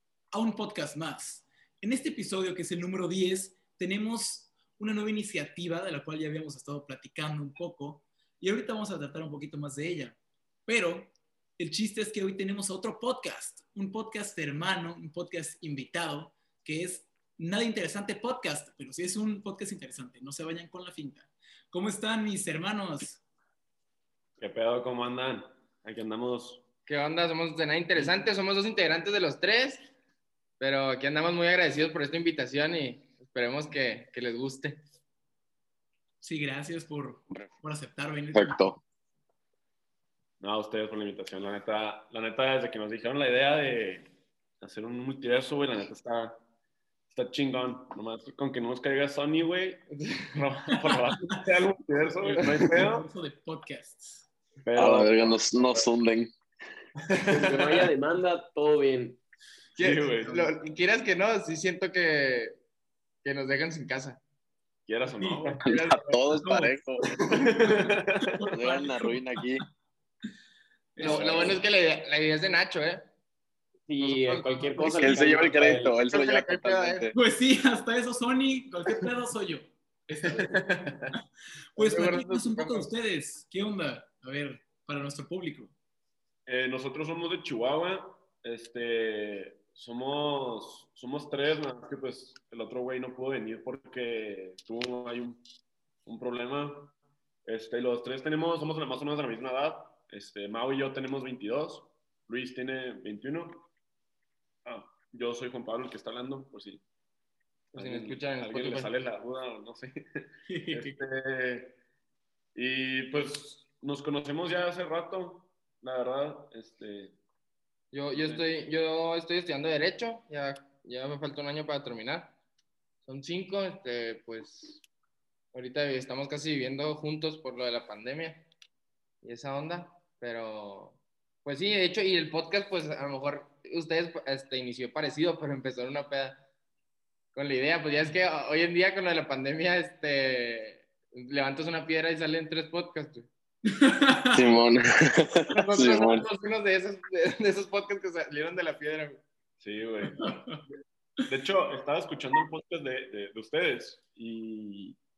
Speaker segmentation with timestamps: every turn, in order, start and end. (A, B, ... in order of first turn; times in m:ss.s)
0:00.3-0:23.2 A
0:24.4-0:26.6 B
0:26.9-0:29.9 C
0:30.6-0:34.8 C
0:36.2-0:38.6 A
0:38.3-0:38.8 D
0:40.4-0:44.1 B
0:44.6-0:46.4 B
0:47.1-0:53.0 B
0:49.9-0:50.5 C
0:52.2-0:54.3 A
0:54.6-0:55.9 B
0:54.8-0:56.3 D
0:57.0-0:57.9 B
0:57.3-0:59.2 E
0:59.8-1:00.5 B
0:59.8-1:02.6 C
1:03.2-1:04.2 C
1:04.9-1:05.6 B
1:05.2-1:05.6 A
1:05.6-1:06.4 C
1:05.6-1:07.1 D
1:06.4-1:06.7 A
1:07.2-1:07.7 C
1:07.3-1:08.3 B
1:08.2-1:09.3 A
1:08.5-1:09.6 D
1:11.0-1:11.6 A
1:11.0-1:13.0 C
1:11.0-1:11.6 D
1:13.9-1:16.0 E
1:14.0-1:15.3 C
1:14.8-1:15.1 A
1:15.0-1:17.1 D
1:16.1-1:17.1 C
1:17.1-1:20.5 A
1:20.2-1:21.1 B
1:21.8-1:25.7 A
1:21.8-1:22.9 C
1:26.4-1:35.4 B
1:36.0-1:36.9 B
1:37.4-1:43.7 B
1:44.6-1:46.8 B
1:47.7-1:51.8 B
1:47.8-1:48.9 C
1:50.5-1:51.0 A
1:52.6-1:57.2 B
1:57.9-2:02.4 C
1:58.1-1:58.4 B
2:03.0-2:04.8 C
2:05.5-2:08.5 C
2:09.2-2:16.4 C
2:17.3-2:23.3 C
2:23.7-2:24.4 A
2:24.3-2:26.2 D
2:25.5-2:29.2 C
2:29.6-2:30.4 B
2:30.1-2:30.6 A
2:31.2-2:35.0 B